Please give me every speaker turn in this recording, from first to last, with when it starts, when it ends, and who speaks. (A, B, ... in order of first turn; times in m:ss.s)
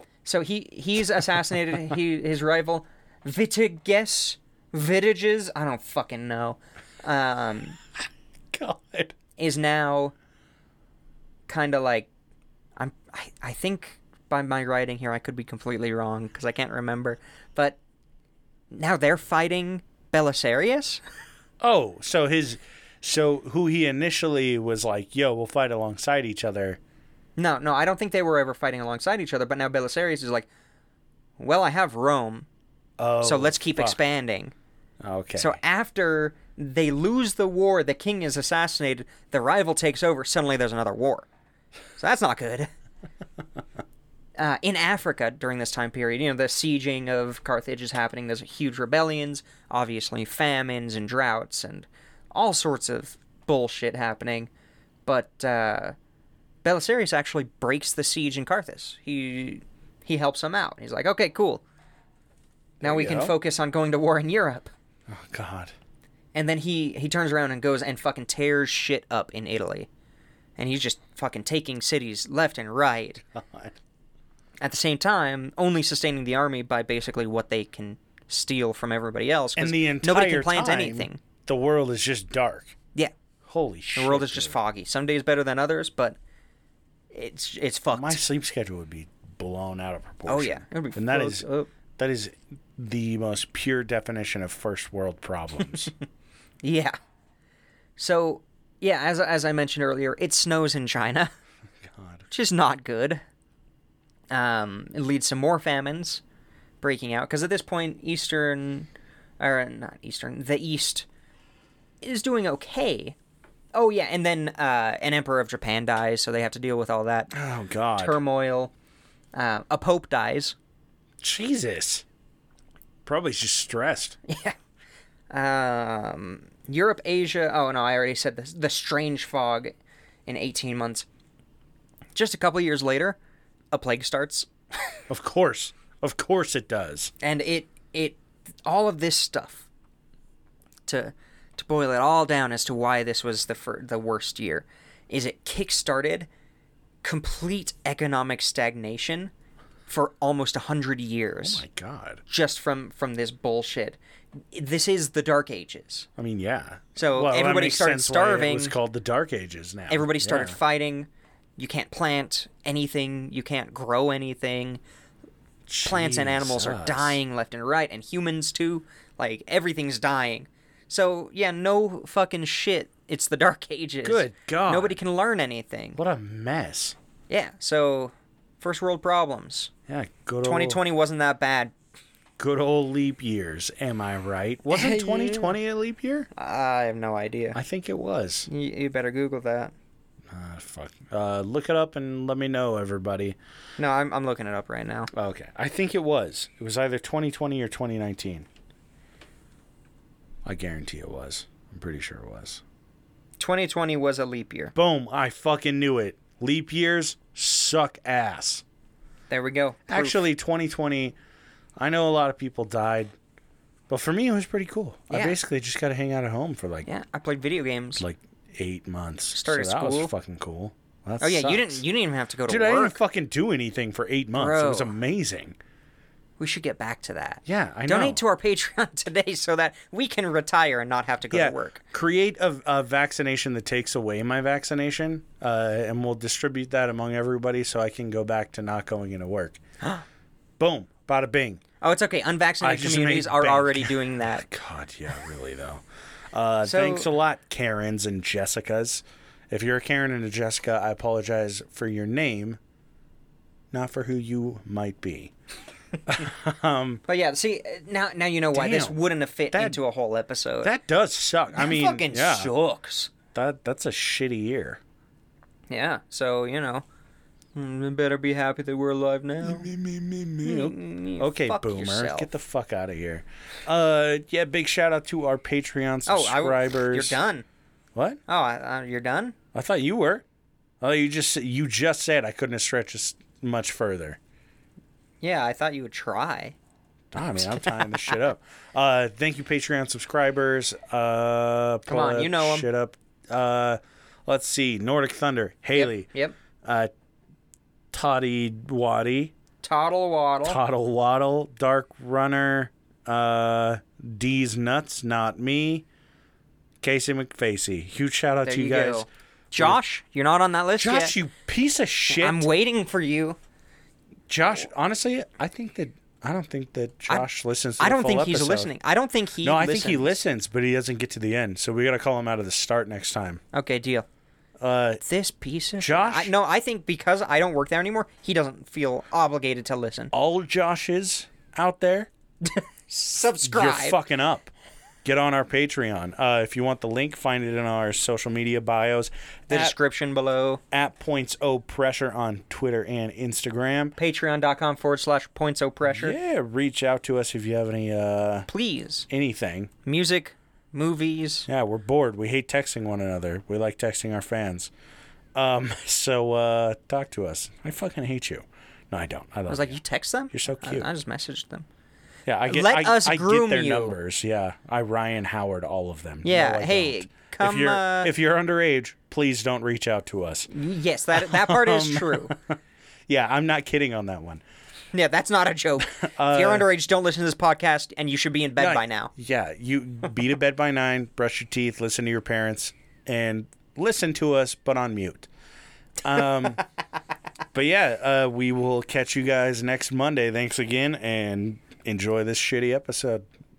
0:00.2-0:07.8 A
0:08.5-0:09.2 B
0:09.4-0:10.1 A
0:11.5-0:12.1 A
0:12.8-0:17.8 A
0:18.7-0:21.0 A
0:21.6-0:26.8 B
0:27.4-0:30.5 A
0:31.4-0:32.5 A
0:33.0-0:34.0 B
0:33.2-0:34.5 A
0:35.0-0:35.6 B
0:35.4-0:41.3 A
0:42.0-0:42.7 A
0:44.4-0:54.5 A
0:55.1-0:56.0 A
0:56.6-1:01.6 A
1:02.8-1:03.4 B
1:02.8-1:04.7 A
1:05.1-1:05.7 B
1:06.3-1:09.9 A
1:10.6-1:13.2 A
1:13.4-1:13.8 B
1:14.6-1:21.2 A
1:19.6-1:22.8 B
1:23.4-1:24.6 B
1:24.0-1:26.2 A
1:27.1-1:28.2 A
1:27.9-1:35.9 B
1:30.3-1:31.7 A
1:36.6-1:37.0 A
1:38.0-1:41.3 A
1:41.8-1:42.3 B
1:42.3-1:43.2 A
1:44.3-1:46.2 A
1:46.8-1:51.1 A
1:52.0-1:53.2 A
1:53.7-1:57.3 A
1:57.3-1:58.2 B
1:58.0-1:58.7 A
1:59.3-2:00.6 A
2:01.2-2:02.0 B
2:03.0-2:04.2 B
2:04.3-2:04.6 A
2:05.3-2:09.8 A
2:10.3-2:11.1 A
2:12.2-2:13.2 A
2:13.7-2:14.5 A
2:15.1-2:17.1 B
2:17.2-2:19.7 A
2:20.9-2:26.3 A
2:27.0-2:29.3 A
2:29.9-2:31.6 A
2:31.4-2:32.2 B
2:32.3-2:34.0 A
2:34.5-2:36.1 A
2:36.2-2:40.6 B
2:37.0-2:38.7 A
2:39.9-2:44.8 A
2:45.7-2:47.2 B
2:45.8-2:56.0 A
2:54.0-2:55.0 B
2:56.0-2:57.0 B
2:57.3-2:59.7 A
2:59.9-3:00.8 B
3:00.4-3:01.7 A
3:02.4-3:06.3 B
3:04.7-3:05.6 A
3:06.4-3:07.6 A
3:07.5-3:08.5 B
3:08.5-3:09.7 A
3:10.3-3:13.4 B
3:13.8-3:15.1 A
3:15.1-3:18.5 B
3:20.4-3:22.6 B
3:23.4-3:24.7 A
3:24.8-3:28.6 B
3:29.3-3:30.2 A
3:29.9-3:31.2 B
3:31.8-3:33.1 B
3:33.9-3:36.9 B
3:35.1-3:35.4 A
3:36.9-3:38.0 A
3:38.0-3:41.8 B
3:39.3-3:40.1 A
3:41.2-3:43.0 A
3:42.5-3:45.6 B
3:44.4-3:44.9 A
3:46.4-3:51.8 A
3:47.5-3:48.2 B
3:51.3-3:59.6 B
4:00.6-4:01.6 B
4:01.8-4:04.5 A
4:02.6-4:12.6 B
4:06.6-4:07.1 A
4:13.7-4:15.3 B
4:16.1-4:17.0 B
4:17.1-4:20.7 A
4:18.5-4:19.0 B
4:19.5-4:19.8 B
4:20.6-4:22.5 B
4:21.6-4:23.1 A
4:23.3-4:24.8 B
4:25.7-4:26.8 A
4:27.6-4:29.7 A
4:29.4-4:37.2 B
4:30.4-4:32.3 A
4:36.1-4:37.4 A
4:38.3-4:39.4 A
4:39.5-4:40.2 B
4:40.8-4:44.2 B
4:45.2-4:46.6 A
4:47.1-4:56.1 B
4:47.5-4:48.1 A
4:51.9-4:52.7 A
4:55.8-4:56.4 A
4:56.6-4:56.9 B
4:57.9-4:59.3 B
4:59.6-5:00.6 A
5:00.4-5:05.8 B
5:06.8-5:09.8 B
5:08.4-5:11.2 A
5:10.8-5:12.5 B
5:12.1-5:13.4 A
5:14.3-5:18.7 B
5:17.8-5:20.2 A
5:19.4-5:23.4 B
5:23.5-5:24.1 A
5:24.6-5:25.0 B
5:25.0-5:30.1 A
5:25.8-5:26.3 B
5:30.1-5:32.1 B
5:32.4-5:34.0 A
5:33.4-5:34.5 B
5:35.0-5:39.8 B
5:39.5-5:40.6 A
5:40.7-5:44.0 B
5:44.0-5:46.2 A
5:45.9-5:48.5 B
5:48.5-5:49.1 A
5:49.1-5:49.7 B
5:49.8-5:51.5 A
5:51.5-5:54.7 B
5:55.4-5:59.8 B
5:59.5-6:01.7 A
6:00.3-6:00.9 B
6:02.3-6:10.5 B
6:02.5-6:04.0 A
6:06.2-6:08.1 A
6:10.5-6:12.4 A
6:11.1-6:12.6 B
6:13.1-6:14.4 B
6:14.9-6:19.1 A
6:16.0-6:16.7 B
6:18.6-6:25.3 B
6:26.0-6:26.6 B
6:27.5-6:33.2 B